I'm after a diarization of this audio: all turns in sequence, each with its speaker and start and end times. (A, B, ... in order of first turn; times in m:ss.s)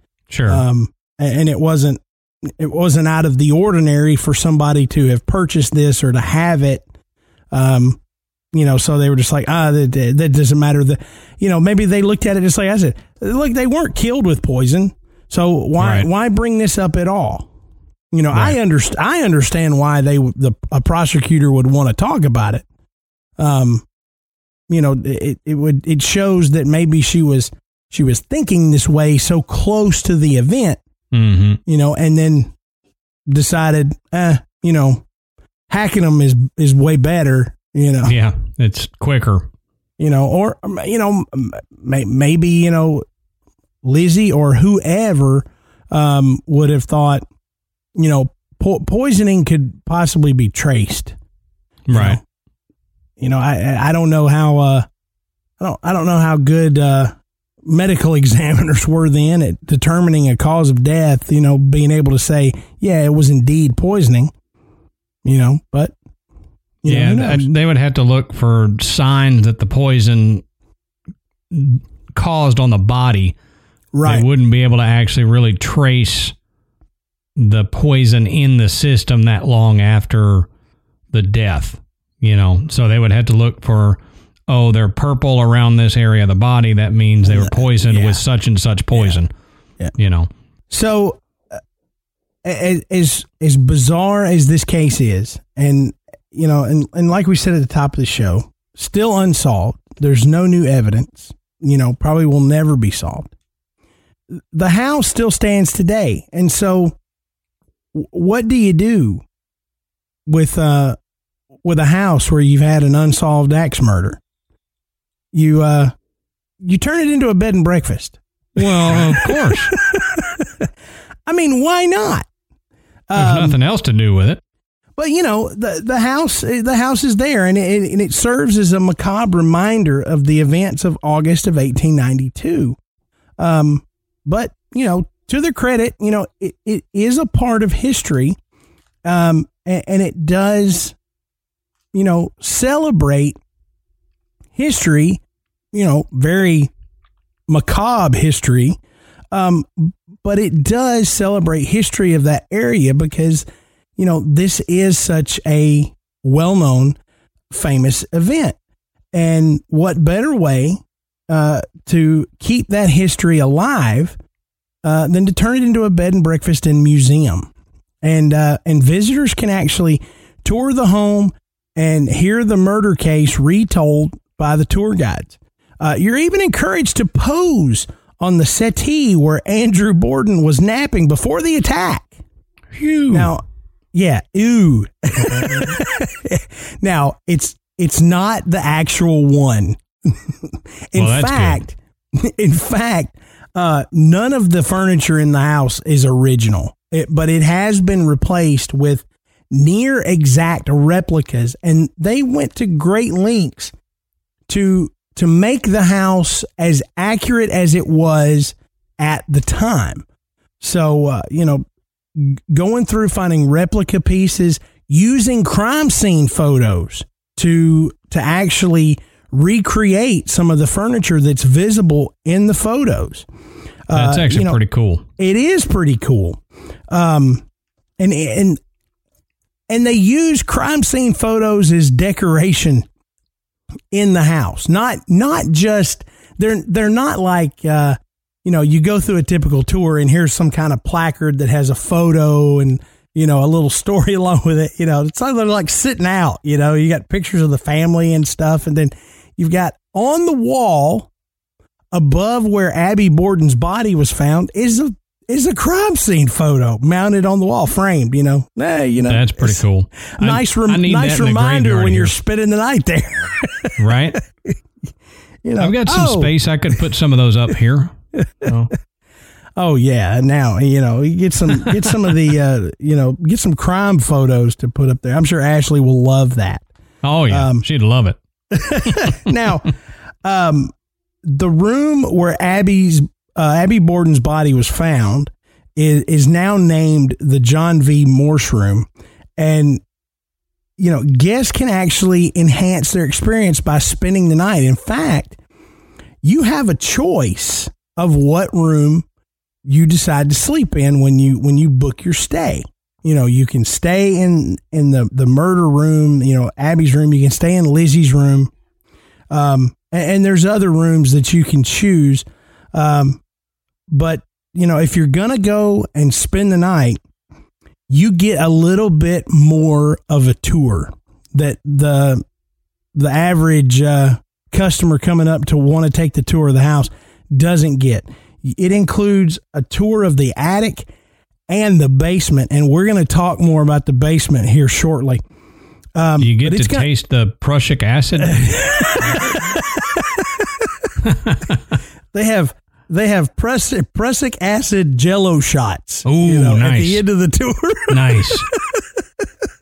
0:00.3-0:00.6 A
0:00.5-0:06.8 B
0:07.5-0:08.0 B
0:08.5-0:17.5 B
0:15.8-0:16.1 A
0:18.1-0:22.6 B
0:23.4-0:23.8 B
0:24.7-0:30.8 B
0:31.1-0:31.6 A
0:31.6-0:32.5 B
0:33.3-0:35.0 B
0:35.7-0:38.1 B
0:38.0-0:39.4 A
0:40.0-0:43.0 B
0:43.8-0:47.2 B
0:47.9-0:51.1 B
0:51.9-0:52.2 A
0:51.9-0:52.2 B
0:53.2-0:54.8 B
0:55.6-1:04.3 B
1:05.2-1:05.9 B
1:06.8-1:07.5 B
1:06.8-1:10.4 A
1:11.5-1:13.3 A
1:13.9-1:14.2 B
1:14.0-1:16.3 A
1:17.4-1:20.5 A
1:21.1-1:29.3 A
1:27.2-1:28.2 B
1:30.0-1:30.3 A
1:30.7-1:31.6 B
1:32.4-1:43.3 B
1:44.3-1:47.0 B
1:47.9-1:49.2 B
1:50.2-1:51.0 B
1:51.6-1:54.2 B
1:55.3-1:55.9 B
1:56.6-2:00.7 B
1:58.6-1:59.7 A
2:01.2-2:02.3 B
2:03.1-2:03.6 B
2:03.2-2:04.4 A
2:05.0-2:12.8 B
2:13.4-2:18.4 B
2:19.0-2:21.0 B
2:21.9-2:23.4 B
2:24.6-2:25.2 B
2:25.7-2:26.7 B
2:27.5-2:28.8 B
2:29.3-2:33.4 B
2:34.0-2:37.0 B
2:37.5-2:38.6 B
2:39.1-2:44.2 B
2:44.8-2:47.5 B
2:48.0-3:02.1 B
3:02.7-3:03.3 A
3:03.1-3:03.4 B
3:03.9-3:23.7 B
3:11.0-3:11.6 A
3:24.5-3:30.0 B
3:30.6-3:43.3 B
3:43.9-3:44.6 B
3:43.9-3:45.0 A
3:45.2-3:47.4 B
3:48.0-3:48.6 B
3:49.7-3:52.9 B
3:53.9-4:11.1 B
4:11.9-4:24.2 B
4:19.0-4:22.1 A
4:23.8-4:24.2 A
4:25.4-4:26.3 B
4:25.6-4:28.7 A
4:28.2-4:28.5 B
4:29.6-4:36.6 B
4:37.0-4:38.2 A
4:37.3-4:37.6 B
4:38.5-4:39.7 B
4:38.8-4:39.2 A
4:40.2-4:40.7 B
4:41.2-4:49.8 B
4:50.8-4:55.4 B
4:56.2-4:59.0 B
4:59.6-5:08.5 B
5:09.3-5:13.2 B
5:13.9-5:17.0 B
5:17.9-5:22.2 B
5:22.9-5:30.9 B
5:31.5-5:35.2 B
5:36.0-5:36.9 B
5:36.2-5:39.2 A
5:38.2-5:40.8 B
5:41.0-5:41.6 A
5:42.1-5:49.2 B
5:46.0-5:47.0 A
5:47.9-5:48.5 A